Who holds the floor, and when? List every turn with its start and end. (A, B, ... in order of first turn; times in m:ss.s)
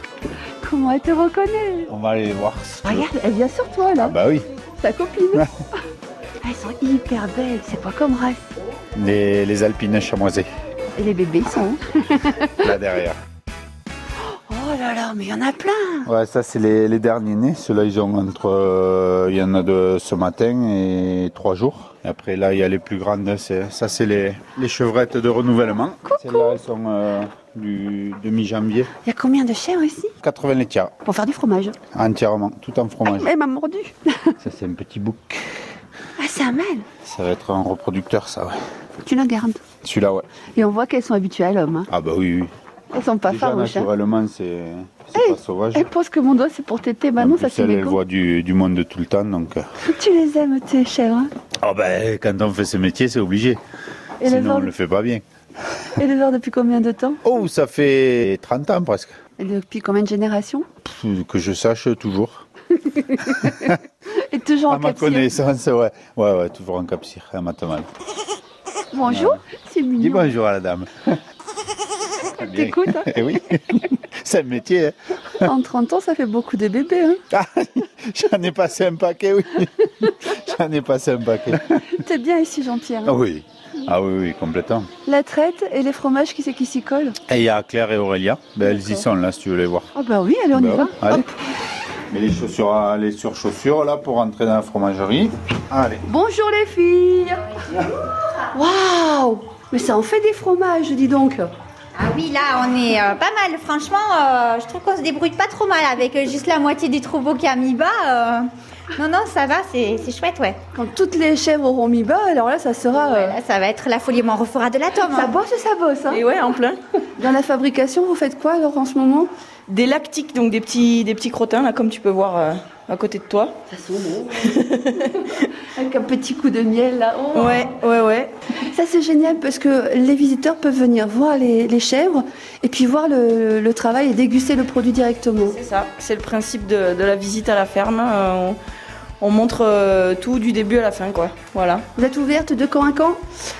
0:00.6-0:01.9 A
0:01.9-0:03.1 B
0:02.8-0:04.1 A
0:04.0-0:04.5 B
0:04.8-0:05.5 A
0:06.4-0:08.4 A
0:08.9-0:10.5 B
0:11.0-0:12.8 A
0:12.6-0:13.2 B
0:14.5-0:16.1 A
0:16.0-0:28.9 B
0:26.0-0:26.6 A
0:29.0-0:30.1 A
0:30.2-0:30.9 B
0:31.0-0:31.8 A
0:31.9-0:33.3 B
0:33.0-0:34.4 A
0:34.4-0:35.4 B
0:36.2-0:36.8 A
0:37.0-0:38.6 B
0:39.0-0:39.6 A
0:39.8-0:40.2 B
0:40.6-0:41.9 A
0:41.9-0:42.5 B
0:42.9-0:43.9 A
0:43.2-0:45.9 B
0:45.1-0:48.0 A
0:47.2-0:49.6 B
0:49.8-0:51.3 A
0:51.6-0:53.6 B
0:54.2-0:54.7 A
0:54.2-0:55.2 B
0:56.0-0:57.2 A
0:57.2-0:59.2 B
0:59.4-1:00.6 A
1:00.8-1:02.4 B
1:03.0-1:05.3 A
1:03.4-1:03.8 B
1:04.7-1:07.9 B
1:08.9-1:10.3 A
1:09.0-1:09.4 B
1:10.0-1:11.2 B
1:12.3-1:15.5 B
1:12.4-1:13.1 A
1:15.4-1:17.2 A
1:17.3-1:22.0 B
1:21.8-1:23.2 A
1:23.0-1:24.9 B
1:25.0-1:27.2 A
1:27.2-1:29.9 B
1:28.6-1:29.0 A
1:29.9-1:31.3 A
1:30.5-1:31.3 B
1:32.1-1:36.0 B
1:36.0-1:37.5 A
1:38.5-1:41.5 A
1:42.0-1:50.6 C
1:50.7-1:53.4 A
1:53.0-1:55.3 C
1:55.0-1:56.2 A
1:56.1-1:56.8 D
1:57.2-1:59.3 A
1:59.7-2:03.6 D
2:03.7-2:04.5 A
2:04.3-2:05.4 D
2:05.3-2:07.8 A
2:07.3-2:08.3 D
2:08.6-2:15.6 A
2:15.5-2:18.6 D
2:19.2-2:21.9 D
2:21.9-2:23.2 A